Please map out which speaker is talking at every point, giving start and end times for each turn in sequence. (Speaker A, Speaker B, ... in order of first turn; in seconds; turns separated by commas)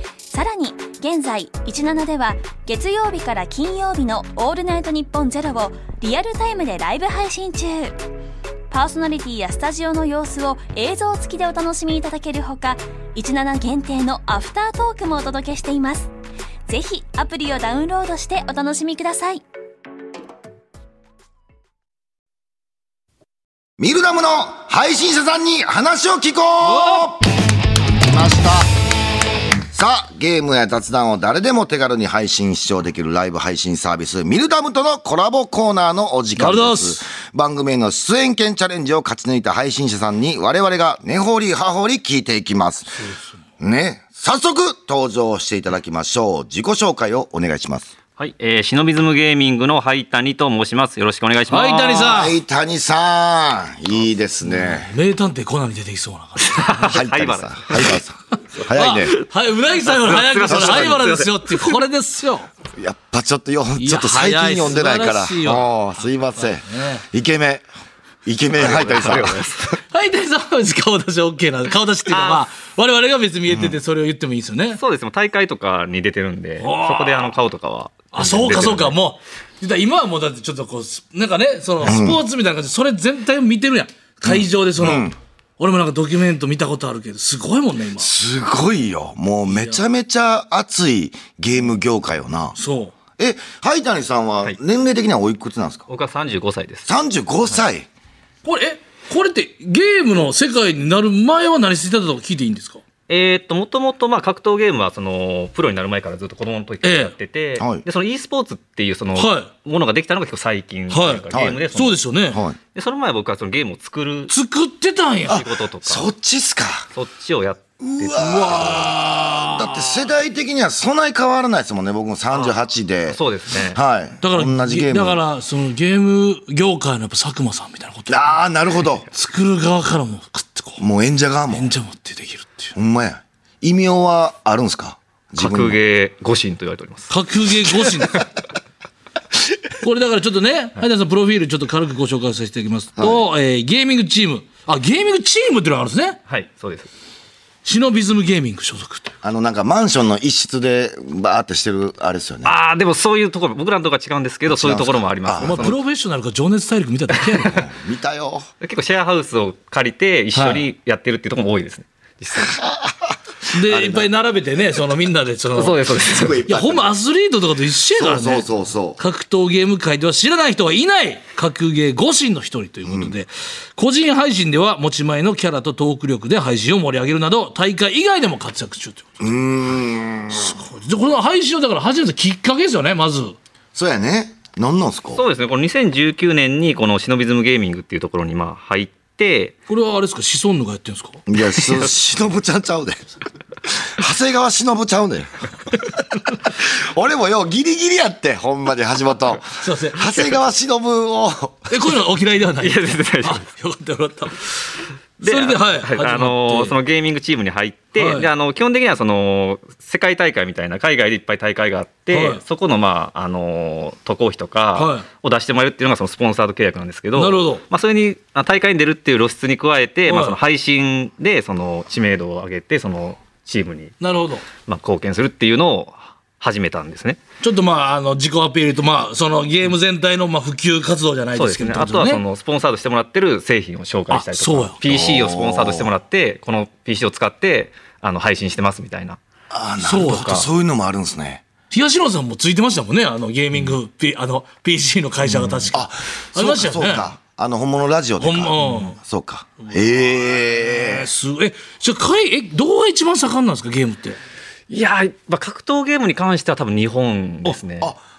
Speaker A: 0.3-8.0, Speaker A: 8.7-16.1, Speaker A: 16.7-19.4, Speaker B: 23.8-27.2, Speaker C: 26.6-27.1, Speaker B: 28.0-28.7, Speaker B: 29.7-47.9, Speaker C: 36.4-37.0, Speaker C: 43.0-43.3, Speaker D: 48.2-52.2, Speaker C: 51.5-52.4, Speaker B: 52.0-54.9, Speaker C: 54.4-56.8, Speaker D: 56.5-58.0, Speaker B: 56.8-59.2, Speaker C: 58.6-62.5, Speaker D: 59.9-61.5, Speaker B: 60.4-61.3, Speaker B: 62.7-67.7, Speaker C: 63.8-67.0, Speaker B: 68.2-69.8, Speaker D: 68.5-69.7, Speaker C: 69.9-74.8, Speaker D: 72.1-72.5, Speaker B: 73.5-73.8, Speaker D: 74.8-79.0, Speaker C: 76.6-77.3, Speaker C: 78.1-88.1, Speaker B: 81.8-82.2, Speaker B: 84.3-85.2, Speaker B: 88.0-92.6, Speaker C: 89.5-89.8, Speaker C: 92.6-92.9, Speaker B: 93.2-95.9, Speaker D: 95.9-96.9, Speaker B: 96.9-97.9, Speaker C: 98.4-102.8, Speaker D: 103.1-112.0, Speaker C: 106.8-107.1, Speaker B: 107.6-107.8, Speaker C: 109.2-109.5, Speaker C: 110.9-112.4, Speaker B: 111.3-111.7, Speaker B: 112.3-112.6, Speaker D: 112.7-114.3, Speaker C: 114.3-115.4, Speaker B: 115.3-116.9, Speaker D: 115.3-116.1, Speaker D: 116.9-118.9, Speaker B: 117.8-125.2, Speaker C: 118.2-119.5, Speaker D: 123.1-123.8, Speaker C: 124.2-128.4, Speaker B: 128.1-129.1, Speaker C: 129.1-130.8, Speaker B: 130.8-131.7, Speaker C: 131.5-132.8, Speaker B: 132.8-135.8, Speaker D: 135.4-137.1, Speaker C: 137.1-138.2, Speaker C: 139.8-146.2, Speaker B: 143.0-143.3, Speaker D: 146.3-146.9, Speaker C: 147.7-149.1, Speaker B: 149.2-152.6, Speaker D: 152.4-155.8, Speaker B: 154.5-155.7, Speaker C: 155.4-157.6, Speaker B: 157.4-158.5, Speaker D: 158.6-162.6, Speaker C: 160.3-160.7, Speaker B: 162.4-163.2, Speaker C: 163.5-179.4, Speaker B: 163.7-164.1, Speaker D: 165.6-166.4, Speaker B: 165.9-166.9, Speaker B: 168.0-169.0, Speaker B: 172.9-173.1, Speaker B: 179.2-180.5, Speaker C: 180.3-183.4, Speaker B: 183.7-185.2, Speaker D: 185.2-189.6, Speaker C: 189.7-191.2, Speaker B: 191.3-193.1, Speaker B: 193.7-195.9, Speaker B: 196.4-201.8, Speaker C: 199.6-200.4, Speaker C: 201.7-204.5, Speaker D: 202.6-203.4, Speaker D: 205.2-223.9, Speaker C: 205.2-206.8, Speaker C: 208.0-208.3, Speaker C: 212.1-212.4, Speaker C: 214.8-215.1, Speaker C: 217.2-217.6, Speaker C: 220.1-220.4, Speaker C: 224.0-224.4, Speaker D: 224.7-227.2, Speaker C: 227.4-232.2, Speaker D: 231.3-239.2, Speaker C: 234.1-234.8, Speaker B: 234.8-235.9, Speaker B: 239.5-241.4, Speaker C: 239.8-240.4, Speaker D: 239.9-240.5, Speaker C: 241.7-247.1, Speaker B: 245.4-251.1, Speaker C: 248.2-249.0, Speaker C: 249.6-254.2, Speaker D: 254.7-257.9